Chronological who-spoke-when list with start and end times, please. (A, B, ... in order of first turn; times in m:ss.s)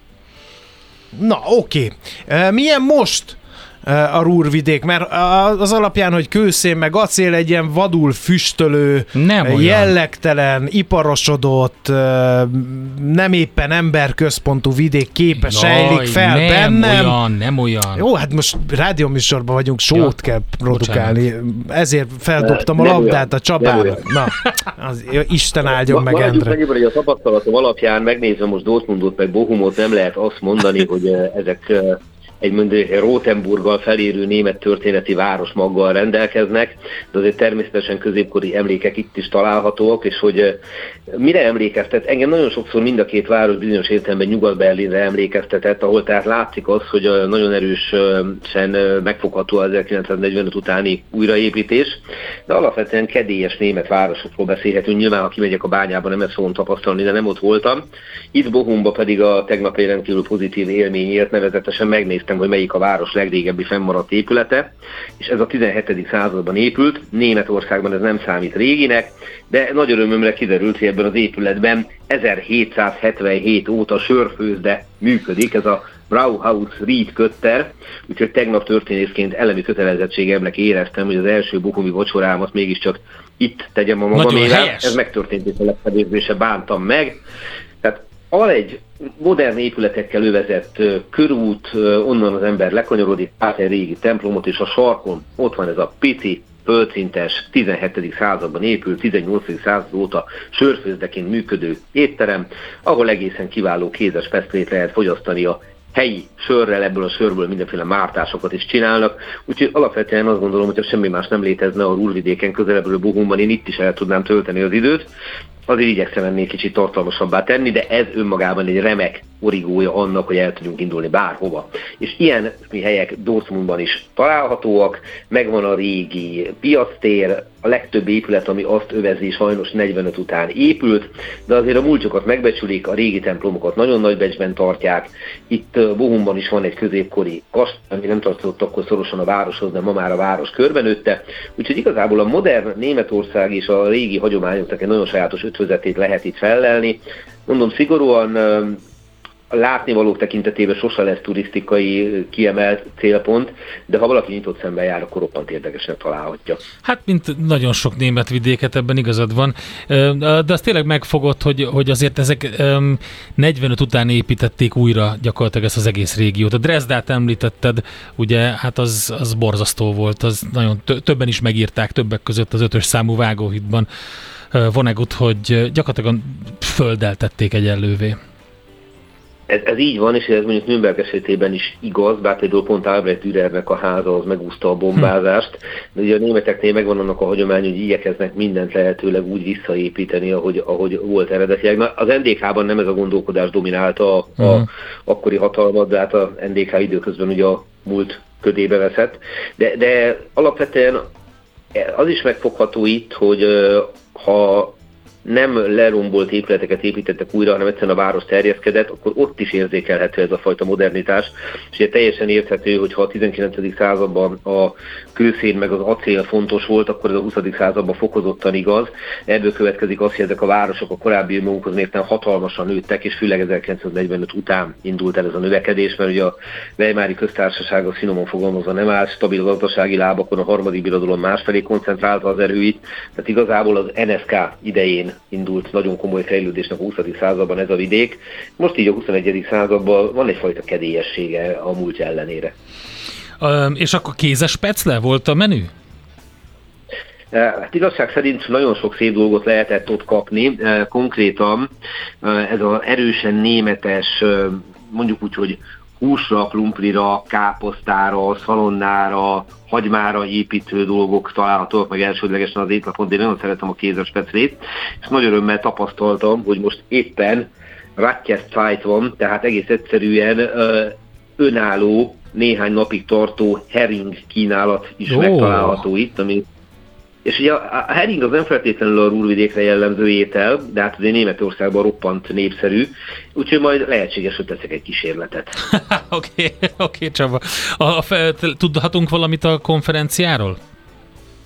0:01.2-0:17.2 A
0:09.1-0:09.9 B
0:15.4-0:18.0 B
0:17.9-0:26.6 A
0:20.7-0:21.1 B
0:22.4-0:24.0 C
0:25.8-1:27.2 C
1:24.1-1:25.0 B
1:27.8-1:55.1 C
1:55.7-2:28.8 C
2:29.5-2:36.6 C
2:36.8-2:53.9 B
2:54.5-2:58.2 B
2:59.5-3:21.1 C
3:14.4-3:14.7 B
3:21.7-4:02.5 C
4:03.4-4:05.7 B
4:07.3-4:11.7 C
4:12.2-4:36.4 C
4:35.1-4:35.8 B
4:37.2-4:45.6 C
4:45.7-4:50.6 B